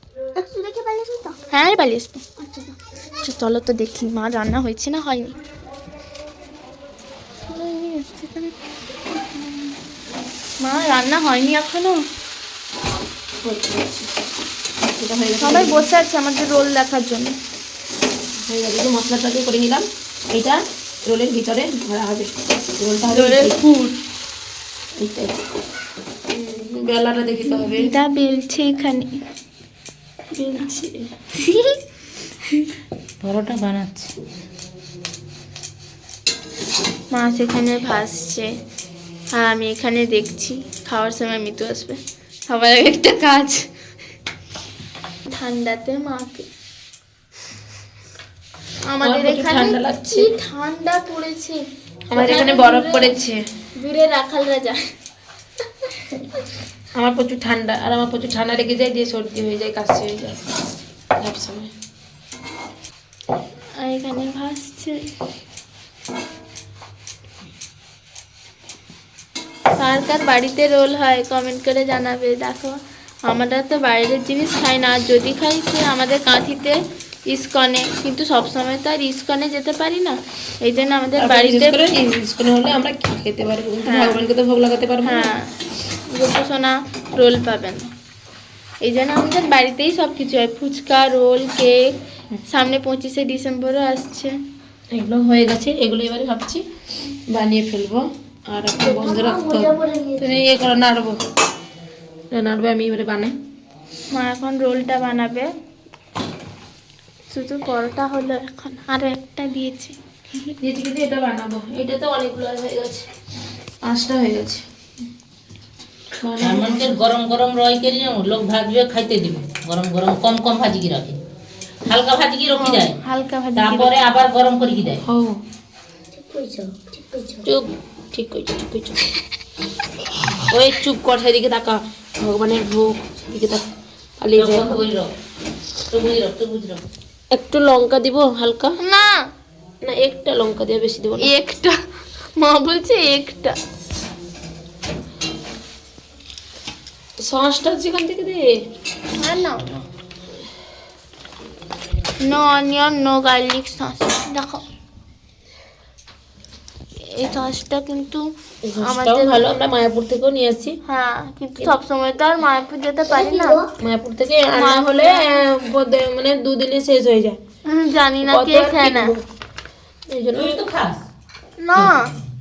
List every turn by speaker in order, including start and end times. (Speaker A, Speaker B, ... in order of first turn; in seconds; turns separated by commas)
Speaker A: 0.4-1.4, Speaker B: 1.5-2.2, Speaker A: 2.4-2.8, Speaker B: 3.2-5.4, Speaker B: 7.5-8.5, Speaker B: 9.3-9.7, Speaker B: 10.6-12.1, Speaker C: 13.4-14.1, Speaker C: 15.0-15.8, Speaker B: 15.4-17.4, Speaker C: 18.5-23.6, Speaker B: 23.1-24.0, Speaker C: 25.0-25.4, Speaker C: 26.3-27.9, Speaker B: 27.5-29.1, Speaker B: 30.3-30.7, Speaker C: 30.6-31.1, Speaker B: 31.3-31.8, Speaker D: 33.2-34.1, Speaker B: 37.1-38.5, Speaker B: 39.3-43.6, Speaker B: 45.3-46.5, Speaker B: 48.9-53.2, Speaker C: 49.0-50.3, Speaker C: 52.1-53.4, Speaker B: 53.8-54.9, Speaker C: 57.0-60.4, Speaker C: 61.2-61.7, Speaker B: 63.8-65.0, Speaker B: 69.8-81.8, Speaker C: 81.2-85.3, Speaker B: 83.9-84.2, Speaker B: 85.0-85.5, Speaker B: 86.1-87.9, Speaker B: 88.8-92.0, Speaker B: 92.5-94.3, Speaker C: 94.9-96.7, Speaker C: 97.3-101.2, Speaker A: 98.8-100.3, Speaker C: 102.3-103.3, Speaker B: 104.1-105.5, Speaker B: 107.3-110.5, Speaker C: 110.6-113.1, Speaker C: 113.8-114.6, Speaker C: 116.2-117.0, Speaker D: 116.4-121.2, Speaker D: 121.9-123.0, Speaker B: 122.5-124.0, Speaker D: 123.5-125.0, Speaker C: 125.0-125.4, Speaker A: 126.1-127.5, Speaker C: 127.5-129.0, Speaker C: 130.5-133.7, Speaker C: 134.2-134.8, Speaker D: 134.3-135.1, Speaker D: 135.9-136.8, Speaker C: 137.3-138.8, Speaker B: 138.8-139.2, Speaker C: 139.8-141.3, Speaker B: 141.2-141.8, Speaker B: 142.4-143.6, Speaker C: 147.2-148.6, Speaker B: 149.2-149.8, Speaker B: 152.2-154.6, Speaker B: 157.1-158.2, Speaker C: 158.6-160.8, Speaker B: 158.8-159.4, Speaker B: 160.9-163.6, Speaker A: 163.1-163.7, Speaker C: 163.8-167.4, Speaker B: 164.6-165.4, Speaker B: 167.7-169.2, Speaker C: 168.2-169.2, Speaker C: 170.1-170.6, Speaker D: 170.3-171.0, Speaker B: 171.6-172.1, Speaker D: 171.8-172.2